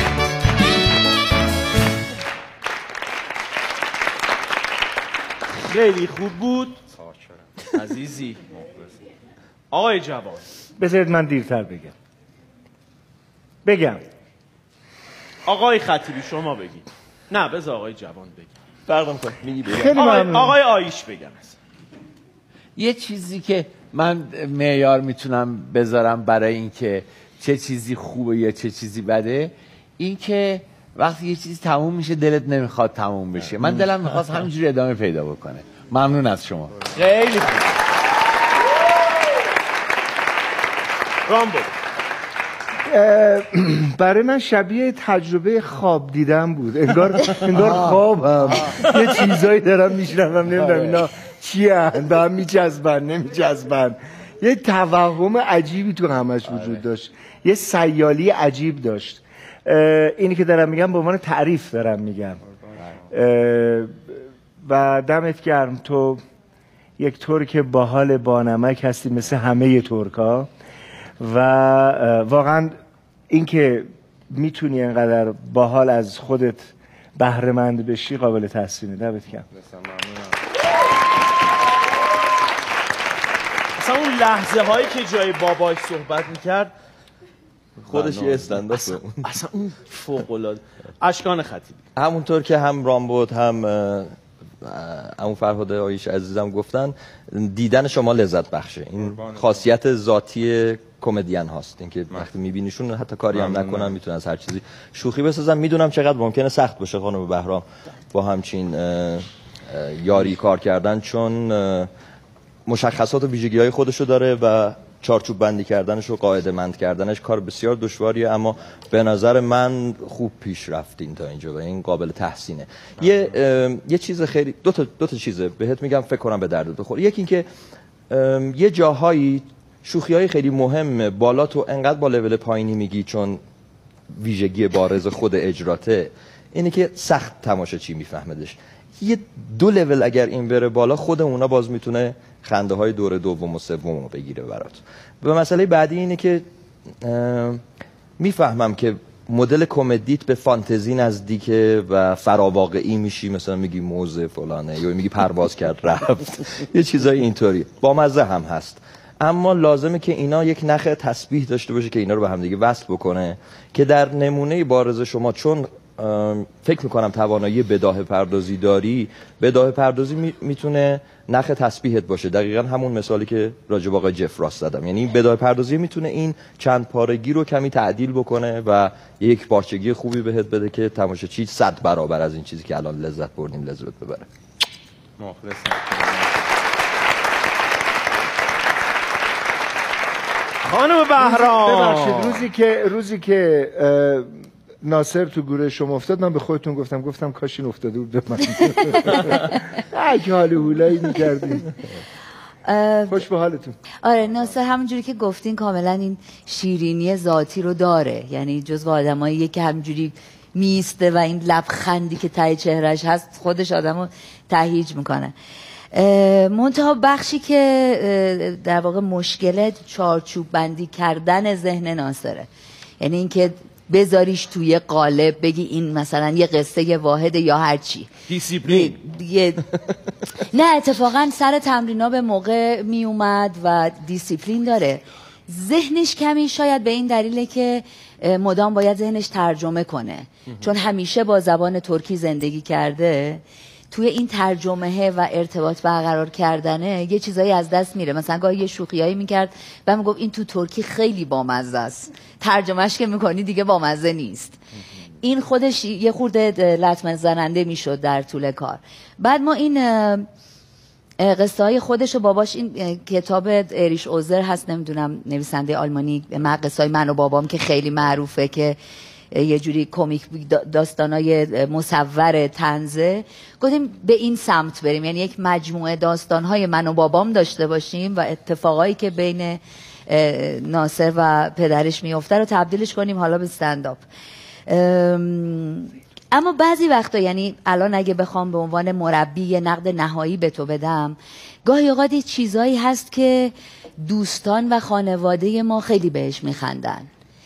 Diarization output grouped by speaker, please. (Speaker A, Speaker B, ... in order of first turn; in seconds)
Speaker A: 5.7-6.8, 7.7-8.4, 9.7-10.4, 15.5-18.5, 19.9-21.6, 36.8-37.7, 41.3-41.7, 83.8-86.7, 87.9-91.8, 190.6-192.5, 228.3-228.9
Speaker B: 10.8-11.9, 13.6-14.0, 19.8-20.6, 42.9-62.4, 63.1-63.9, 64.6-66.2, 67.0-70.5, 71.2-72.8, 73.3-79.5, 191.2-194.3, 194.8-199.2, 199.9-201.8, 203.1-203.8
Speaker C: 18.9-20.0, 87.8-89.2, 92.0-94.1, 94.6-111.9, 112.7-127.5, 128.1-133.4, 134.1-146.4, 147.0-147.6, 148.2-184.3
Speaker D: 22.8-36.8, 56.5-56.8
Speaker E: 79.5-80.4, 99.0-99.6, 103.3-104.0, 185.2-186.4
Speaker F: 202.7-203.3, 204.0-215.3, 215.9-222.5, 223.0-228.1, 228.6-229.7, 230.4-254.6, 255.2-260.3, 261.2-268.8, 269.3-284.0, 284.7-297.1